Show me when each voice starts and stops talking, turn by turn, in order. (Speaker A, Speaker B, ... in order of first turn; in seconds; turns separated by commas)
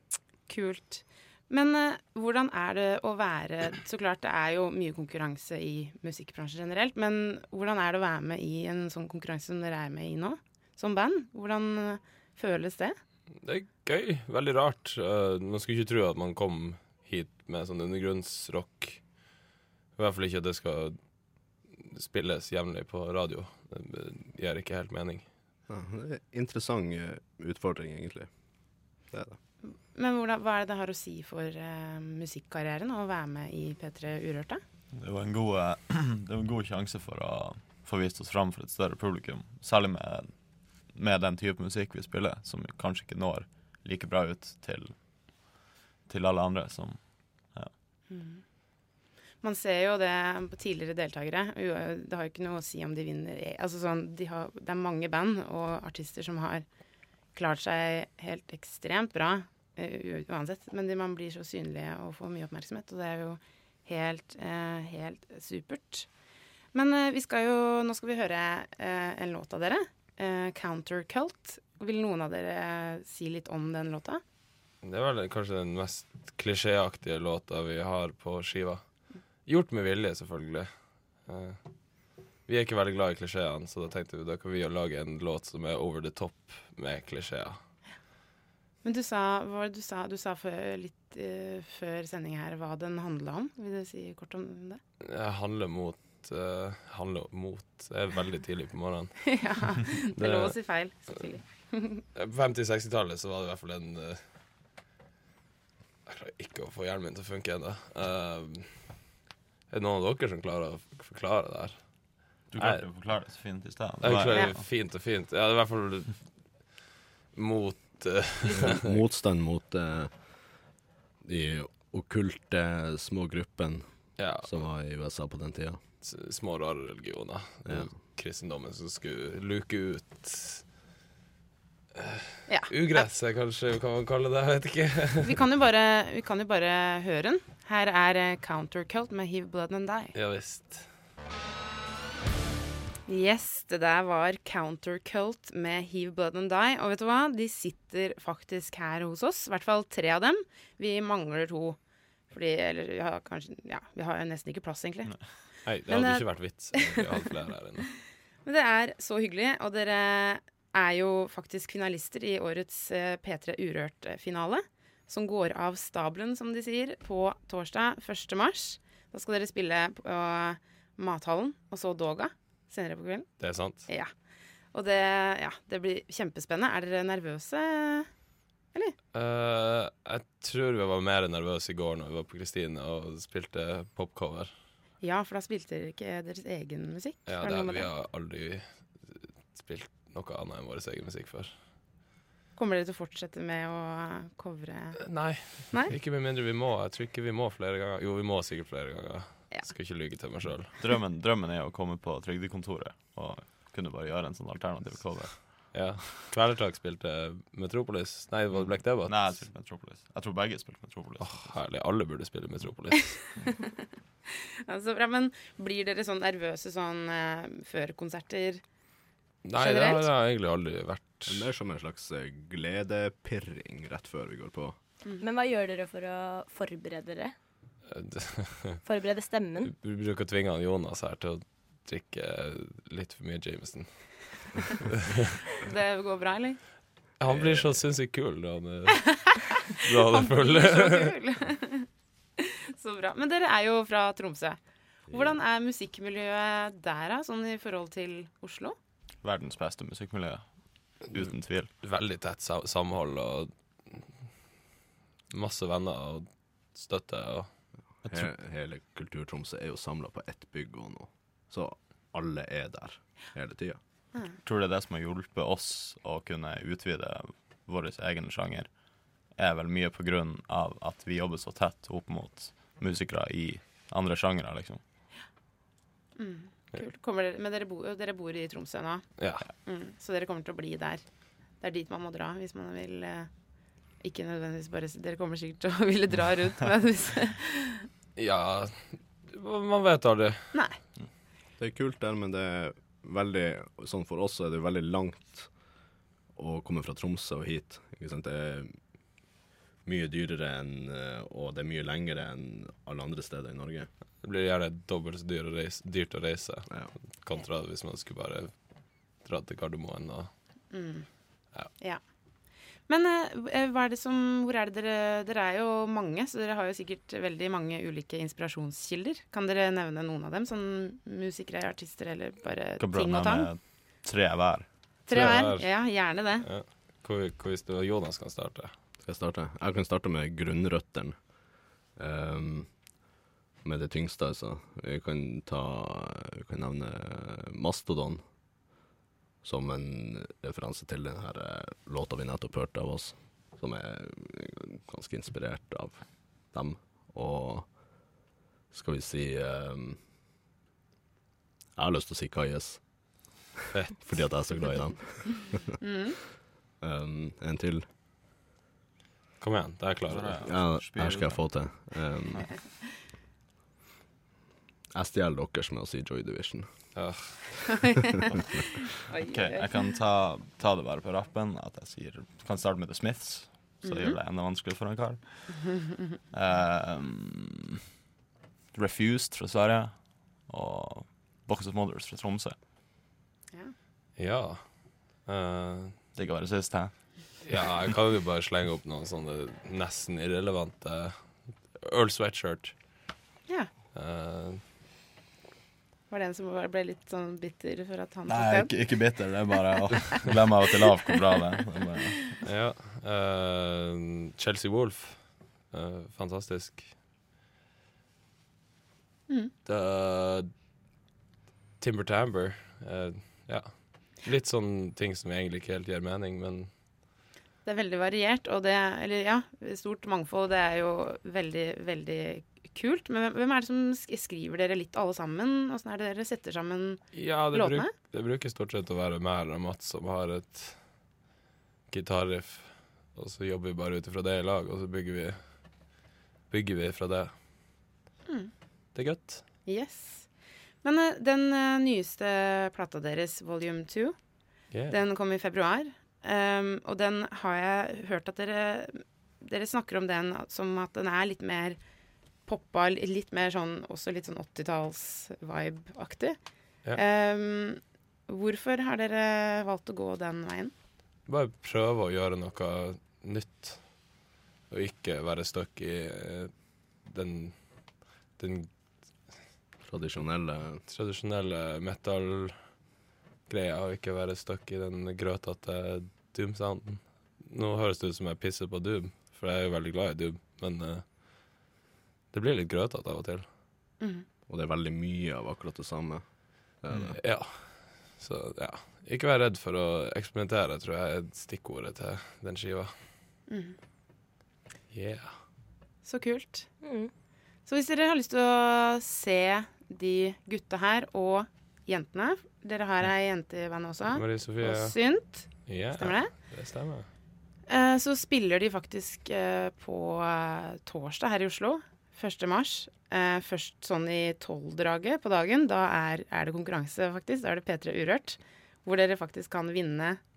Speaker A: 0.5-12.9, Speaker B: 13.4-19.0, Speaker B: 19.9-21.0, Speaker B: 21.7-25.3, Speaker C: 25.7-28.3, Speaker C: 29.1-29.4, Speaker A: 29.6-34.6, Speaker D: 34.9-44.9, Speaker D: 46.0-47.7, Speaker A: 48.1-48.4, Speaker A: 49.4-56.6, Speaker A: 57.3-66.1, Speaker A: 66.7-74.2, Speaker B: 74.8-78.8, Speaker B: 79.5-80.7, Speaker B: 81.2-81.6, Speaker B: 82.5-87.6, Speaker A: 88.8-94.8, Speaker B: 95.0-99.3, Speaker A: 99.3-102.0, Speaker B: 100.2-100.5, Speaker B: 102.2-104.2, Speaker B: 106.1-108.9, Speaker B: 109.7-111.9, Speaker D: 112.5-114.6, Speaker B: 112.5-112.8, Speaker B: 114.0-116.2, Speaker B: 117.3-118.9, Speaker C: 118.5-120.4, Speaker C: 121.2-125.8, Speaker B: 124.2-124.5, Speaker B: 126.0-130.7, Speaker B: 131.9-135.4, Speaker A: 132.5-133.1, Speaker A: 135.2-140.1, Speaker B: 140.1-140.9, Speaker A: 143.1-151.8, Speaker A: 152.3-155.1, Speaker B: 155.6-157.9, Speaker A: 155.9-157.1, Speaker A: 158.4-173.3, Speaker B: 173.4-173.9, Speaker A: 173.9-174.1, Speaker A: 174.7-178.1, Speaker B: 179.1-184.5, Speaker A: 185.0-187.9, Speaker B: 187.2-191.5, Speaker A: 192.6-195.9, Speaker B: 195.0-200.8, Speaker D: 200.8-205.9, Speaker B: 205.7-209.4, Speaker D: 208.7-211.5, Speaker B: 211.2-213.4, Speaker A: 214.7-218.6, Speaker B: 219.4-221.5, Speaker A: 219.6-220.0, Speaker C: 221.2-224.8, Speaker E: 225.2-227.3, Speaker B: 227.9-228.8, Speaker E: 228.8-229.7, Speaker B: 229.7-233.9, Speaker B: 234.6-235.3, Speaker A: 235.6-236.6, Speaker B: 237.2-241.1, Speaker A: 240.1-241.9, Speaker A: 242.4-244.6, Speaker A: 245.1-248.8, Speaker D: 249.2-251.7, Speaker B: 251.8-254.1, Speaker B: 255.3-257.5, Speaker D: 258.0-258.3, Speaker C: 258.1-263.8, Speaker D: 264.4-274.8, Speaker A: 276.2-279.1, Speaker B: 279.2-279.5, Speaker A: 279.6-281.0, Speaker A: 281.6-283.3, Speaker A: 284.0-287.9, Speaker B: 288.1-290.6, Speaker C: 291.6-295.5, Speaker C: 296.3-298.8, Speaker C: 299.8-303.9, Speaker B: 304.2-308.5, Speaker B: 309.2-310.3, Speaker A: 310.7-311.1, Speaker A: 312.9-323.5, Speaker D: 322.8-324.7, Speaker A: 325.1-326.5, Speaker B: 325.1-328.7, Speaker C: 329.0-331.3, Speaker C: 331.9-332.7, Speaker C: 333.6-338.2, Speaker C: 339.4-347.7, Speaker C: 348.7-350.0, Speaker C: 351.8-352.8, Speaker B: 353.7-354.3, Speaker C: 354.0-355.7, Speaker A: 355.8-356.2, Speaker C: 356.8-357.8, Speaker B: 359.4-360.4, Speaker D: 360.1-361.7, Speaker C: 360.4-362.5, Speaker C: 364.9-367.3, Speaker B: 366.9-367.9, Speaker A: 369.1-369.7, Speaker D: 369.2-375.8, Speaker A: 373.8-374.2, Speaker D: 376.3-377.8, Speaker D: 378.7-382.6, Speaker B: 384.2-386.0, Speaker D: 386.1-387.0, Speaker B: 387.4-392.7, Speaker B: 393.9-394.6, Speaker A: 396.1-398.7, Speaker D: 398.3-402.3, Speaker B: 402.4-406.9, Speaker B: 409.6-410.5, Speaker B: 411.8-416.7, Speaker A: 417.6-427.9, Speaker B: 427.1-430.8, Speaker B: 431.9-435.4, Speaker B: 436.5-437.3, Speaker B: 438.9-439.4, Speaker A: 439.6-440.3, Speaker A: 440.8-444.1, Speaker B: 444.7-445.0, Speaker A: 444.9-451.8, Speaker A: 452.4-456.4, Speaker A: 456.9-460.7, Speaker B: 461.3-464.1, Speaker B: 464.7-468.7, Speaker C: 469.8-470.8, Speaker B: 470.9-472.8, Speaker B: 473.5-481.3, Speaker B: 482.3-483.4, Speaker A: 484.0-484.2, Speaker C: 484.5-487.2, Speaker B: 487.1-492.9, Speaker A: 493.5-493.8, Speaker B: 494.9-495.4, Speaker A: 496.0-496.7, Speaker E: 496.8-497.1, Speaker A: 497.6-506.3, Speaker B: 504.1-504.9, Speaker B: 505.6-507.1, Speaker A: 507.7-520.2